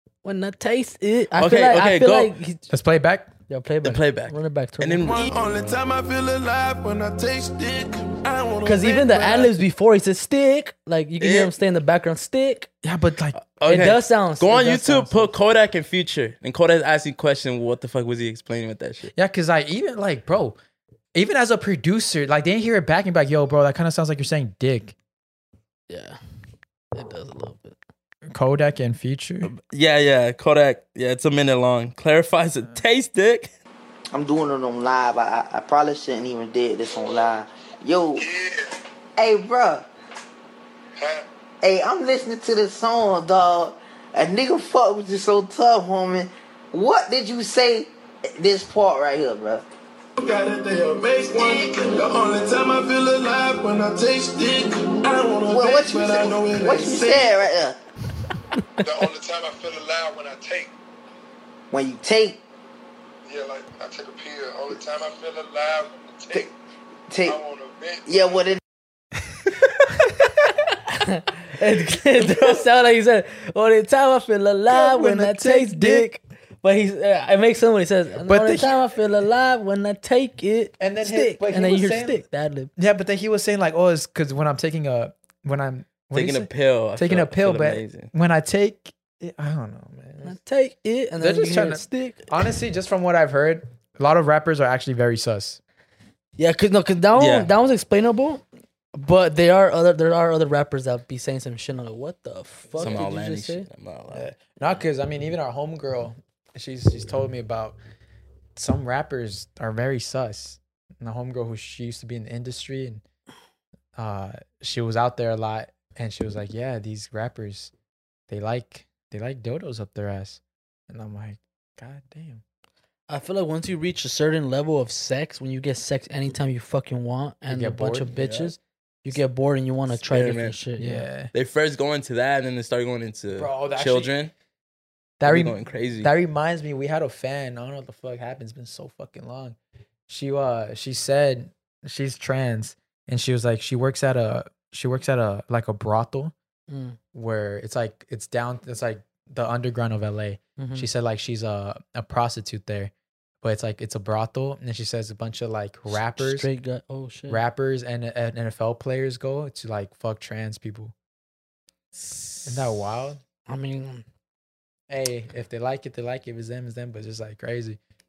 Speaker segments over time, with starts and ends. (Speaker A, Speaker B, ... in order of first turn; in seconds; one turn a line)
Speaker A: 0.2-2.6
Speaker B: 1.4-2.3
Speaker C: 2.7-3.3
Speaker A: 3.5-5.2
Speaker B: 3.8-5.2
Speaker D: 5.0-9.5
Speaker A: 8.6-12.7
Speaker B: 11.2-11.5
Speaker C: 12.8-14.0
Speaker B: 13.4-19.1
Speaker A: 13.7-14.7
Speaker C: 14.5-15.3
Speaker C: 19.1-20.6
Speaker C: 21.1-24.9
Speaker A: 25.9-26.2
Speaker A: 26.9-27.8
Speaker C: 28.3-29.5
Speaker B: 29.4-33.5
Speaker E: 34.1-38.2
Speaker F: 38.2-38.7
Speaker E: 39.2-39.9
Speaker F: 41.0-41.2
Speaker E: 41.6-49.6
Speaker D: 50.2-57.3
Speaker E: 55.5-57.8
Speaker F: 58.8-60.7
Speaker E: 61.7-62.4
Speaker F: 63.2-66.5
Speaker E: 67.1-67.4
Speaker F: 67.2-68.5
Speaker E: 68.0-68.6
Speaker A: 70.9-82.7
Speaker C: 74.7-76.1
Speaker C: 78.2-78.8
Speaker C: 80.8-82.2
Speaker C: 82.8-90.4
Speaker B: 86.1-88.1
Speaker A: 90.2-92.2
Speaker C: 91.2-95.6
Speaker A: 96.4-98.4
Speaker B: 97.2-97.5
Speaker A: 98.9-103.7
Speaker C: 102.7-103.0
Speaker B: 102.8-104.3
Speaker C: 104.1-107.8
Speaker C: 108.5-113.0
Speaker C: 114.0-117.7
Speaker C: 118.3-122.4
Speaker A: 123.1-131.1
Speaker C: 127.5-128.1
Speaker B: 128.1-128.5
Speaker B: 130.0-130.6
Speaker C: 130.8-131.3
Speaker B: 131.3-134.3
Speaker C: 133.4-134.1
Speaker C: 135.2-139.6
Speaker B: 135.2-136.1
Speaker C: 140.1-146.3
Speaker A: 146.7-147.0
Speaker C: 147.1-152.9
Speaker A: 150.6-150.9
Speaker C: 153.4-156.5
Speaker A: 156.2-157.4
Speaker C: 157.3-160.9
Speaker B: 161.9-162.7
Speaker C: 162.4-163.2
Speaker A: 163.5-164.0
Speaker C: 164.9-167.8